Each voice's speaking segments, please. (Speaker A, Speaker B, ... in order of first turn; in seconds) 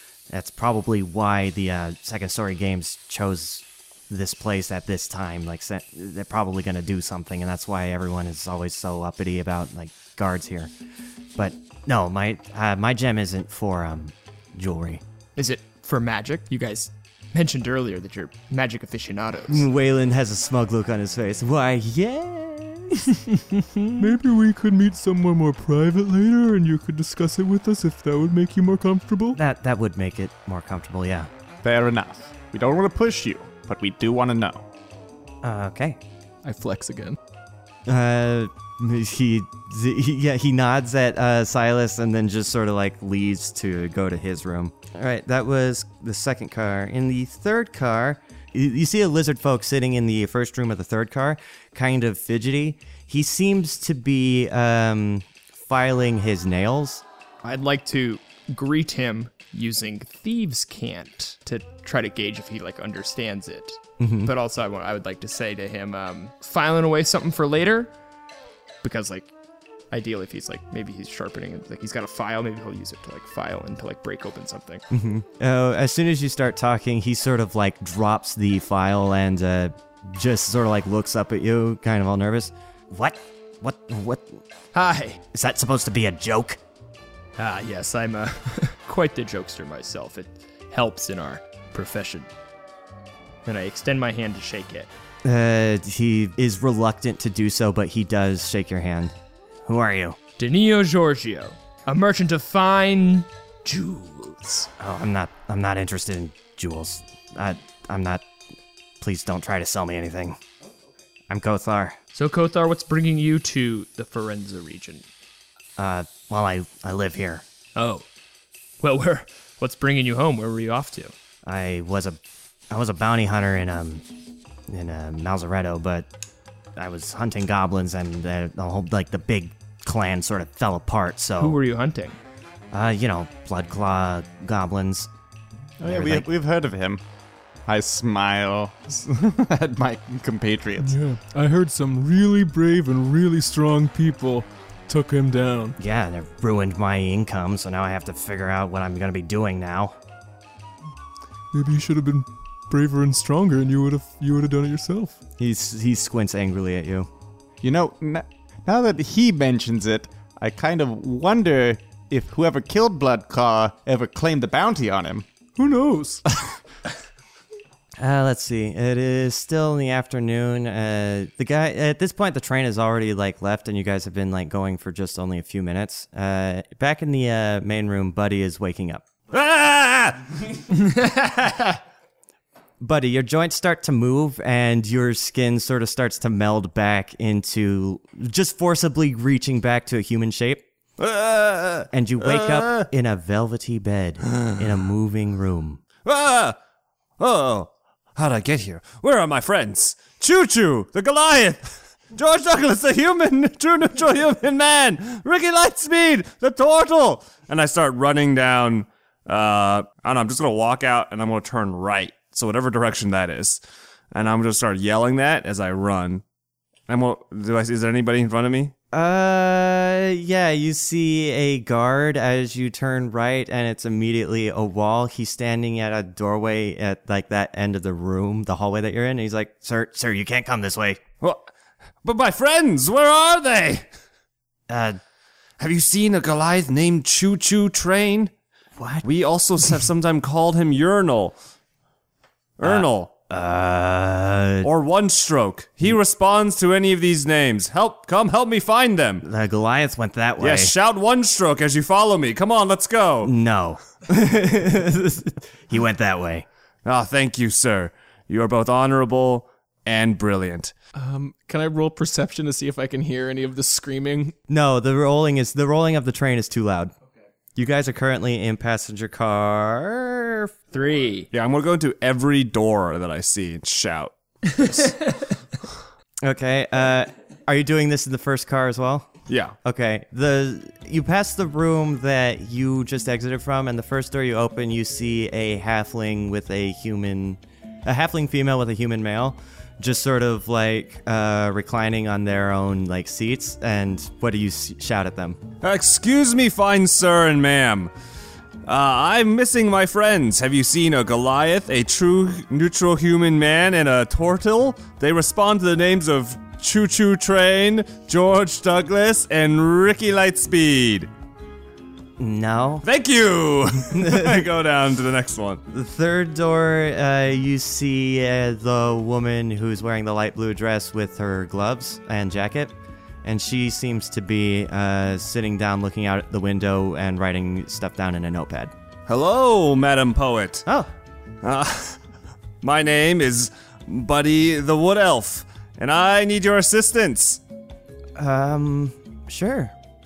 Speaker A: 0.3-10.7, 11.3-15.0, 19.5-23.1, 29.3-31.3, 35.4-36.0, 37.9-57.0, 64.0-64.3, 74.9-84.4, 85.3-86.6, 95.2-99.1, 99.7-100.2, 104.8-108.2, 109.0-110.4, 111.3-112.0, 115.8-117.4, 121.5-122.2, 122.7-124.0, 124.7-126.1, 126.8-131.6, 132.7-135.1, 135.8-136.3, 145.8-149.9, 155.4-157.1, 168.0-179.0, 182.8-190.6, 191.9-195.8, 218.9-231.0, 234.7-235.0, 238.8-239.0, 242.6-244.7, 249.2-250.7, 253.2-256.4, 264.5-266.9, 267.6-270.5, 276.2-279.1, 279.6-295.4, 312.2-312.8, 313.9-314.4, 315.7-322.7, 323.2-328.7, 338.1-339.7
Speaker B: 15.3-19.6, 23.4-24.1, 57.4-67.9, 68.8-69.3, 69.9-74.8, 84.7-85.2, 87.4-92.3, 93.4-94.9, 100.4-104.7, 112.1-115.0, 117.7-118.0, 118.8-121.1, 131.4-132.2, 180.7-181.8, 270.7-271.3
Speaker C: 24.0-29.4, 140.8-145.8, 151.5-155.2, 165.6-166.2
Speaker D: 31.6-34.6, 135.8-137.0, 137.7-141.0, 157.6-165.3
Speaker E: 36.4-37.2, 260.9-264.3
Speaker F: 179.3-180.5, 191.0-192.9, 194.3-194.6, 196.0-196.6, 197.2-213.6, 214.1-216.2, 216.9-218.7, 231.2-231.5, 232.0-233.9, 235.6-238.3, 239.0-241.3, 242.6-243.1, 244.6-249.2, 250.4-253.3, 256.8-260.7, 271.3-274.9, 279.3-279.6, 295.6-297.9, 298.6-311.1, 312.8-315.6, 329.1-330.6, 331.4-332.0, 332.6-337.4